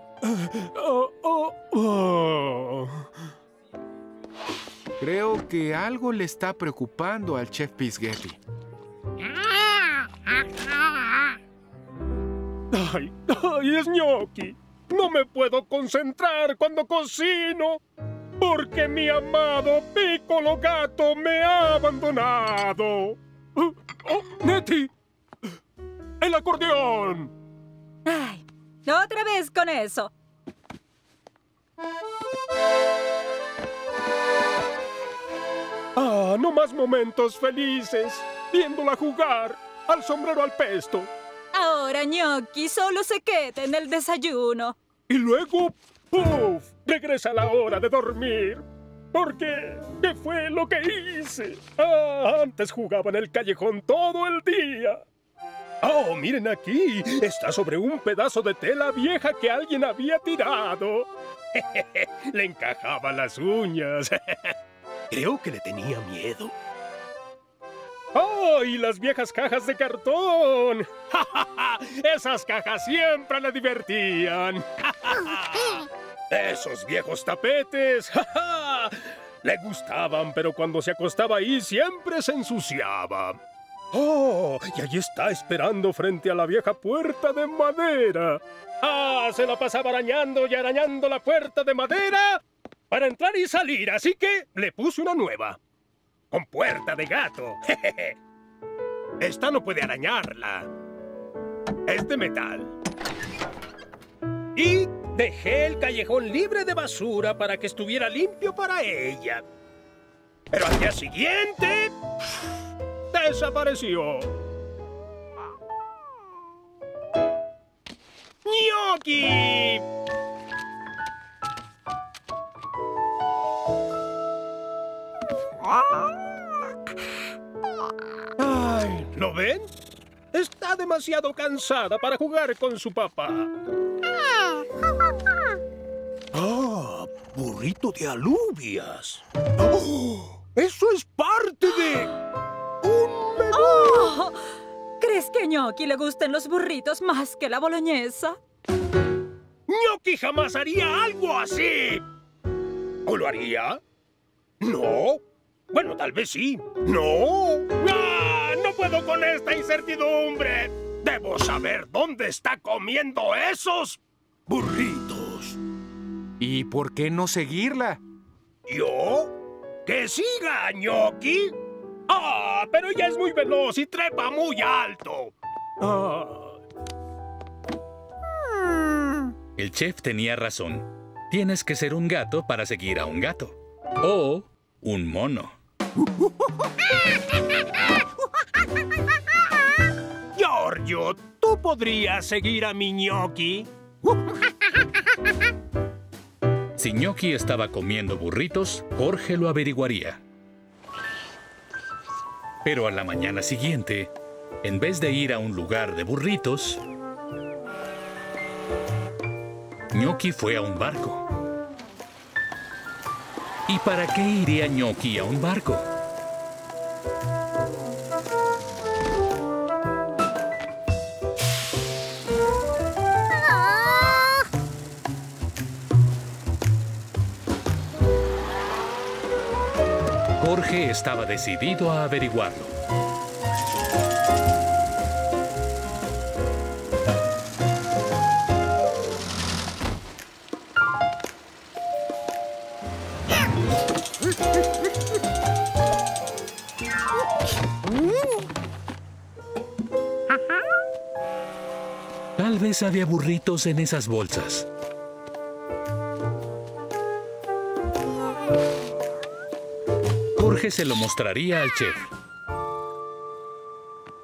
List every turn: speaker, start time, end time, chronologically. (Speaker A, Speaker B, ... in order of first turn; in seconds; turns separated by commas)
Speaker A: 0.2-3.0, Speaker B: 5.0-8.4, Speaker A: 12.7-17.8, Speaker A: 18.4-24.9, Speaker A: 26.2-27.3, Speaker C: 28.1-30.1, Speaker A: 36.0-41.1, Speaker C: 41.5-44.8, Speaker A: 45.1-55.0, Speaker A: 55.8-64.5, Speaker A: 68.1-75.8, Speaker A: 76.3-83.4, Speaker A: 83.9-95.6, Speaker A: 96.3-98.1, Speaker A: 99.2-100.7, Speaker A: 101.9-102.7, Speaker A: 104.6-109.4, Speaker A: 110.5-111.9, Speaker A: 113.1-114.3, Speaker A: 118.4-119.8, Speaker A: 128.4-129.7, Speaker A: 130.3-133.5, Speaker A: 139.6-142.1, Speaker A: 142.8-144.1, Speaker C: 143.5-144.4, Speaker C: 145.0-148.4, Speaker A: 149.7-152.1, Speaker A: 153.1-153.8, Speaker A: 154.6-155.2, Speaker A: 155.7-164.0, Speaker A: 164.5-165.5, Speaker B: 166.4-168.0, Speaker A: 168.7-169.3, Speaker A: 169.9-171.6, Speaker A: 172.1-176.6, Speaker D: 179.6-185.6, Speaker A: 190.4-193.7, Speaker D: 196.8-200.2, Speaker D: 202.6-204.1, Speaker D: 204.6-206.8, Speaker D: 209.9-211.2, Speaker D: 213.7-215.9, Speaker D: 230.4-232.7, Speaker D: 252.4-254.7, Speaker D: 260.4-262.1